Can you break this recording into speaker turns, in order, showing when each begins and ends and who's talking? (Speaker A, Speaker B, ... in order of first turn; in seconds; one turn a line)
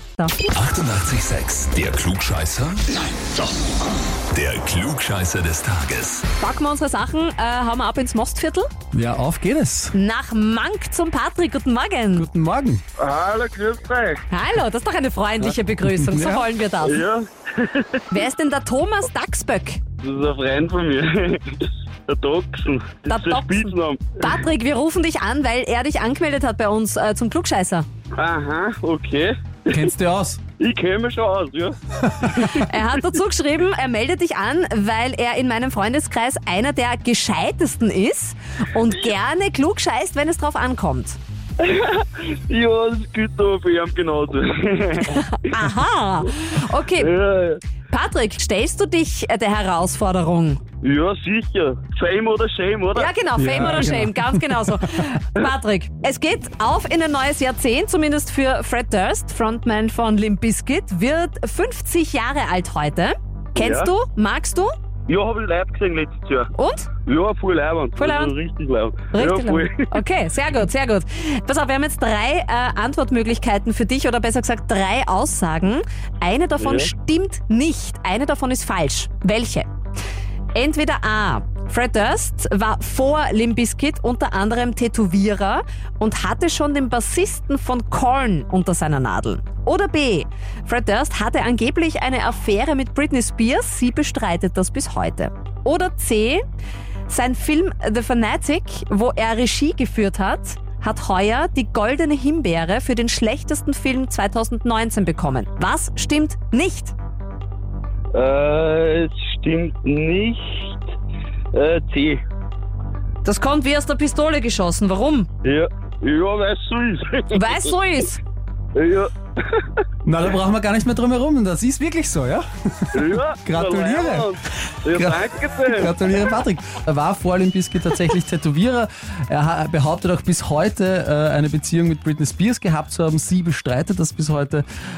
Speaker A: 0.2-0.5
Speaker B: 0.5-2.9
Speaker B: 4.3-6.2
Speaker A: 6.4-8.7
Speaker C: 8.9-9.9
Speaker A: 9.9-12.3
Speaker C: 12.1-12.8
Speaker D: 13.0-14.2
Speaker A: 14.3-17.0
Speaker C: 15.8-16.4
Speaker D: 16.8-18.0
Speaker A: 18.1-19.8
Speaker D: 20.0-24.4
Speaker A: 23.1-27.9
Speaker D: 28.1-29.9
Speaker C: 29.7-30.4
Speaker D: 30.6-31.8
Speaker C: 32.1-32.5
Speaker D: 32.3-32.7
Speaker A: 32.4-41.2
Speaker D: 41.6-45.5
Speaker A: 45.0-47.1
Speaker D: 47.0-47.6
Speaker A: 47.9-50.6
Speaker D: 50.8-53.1
Speaker A: 52.9-64.7
Speaker C: 53.4-55.0
Speaker D: 63.5-63.9
Speaker D: 65.1-66.5
Speaker A: 66.5-66.9
Speaker D: 67.0-69.8
Speaker A: 68.0-68.3
Speaker A: 69.1-79.7
Speaker D: 76.6-76.9
Speaker A: 80.5-96.4
Speaker A: 97.1-106.9
Speaker D: 108.1-110.8
Speaker D: 111.5-112.2
Speaker A: 113.2-115.3
Speaker D: 115.4-117.7
Speaker A: 117.3-118.2
Speaker D: 118.7-119.8
Speaker C: 120.0-124.3
Speaker D: 122.9-126.0
Speaker C: 124.9-134.7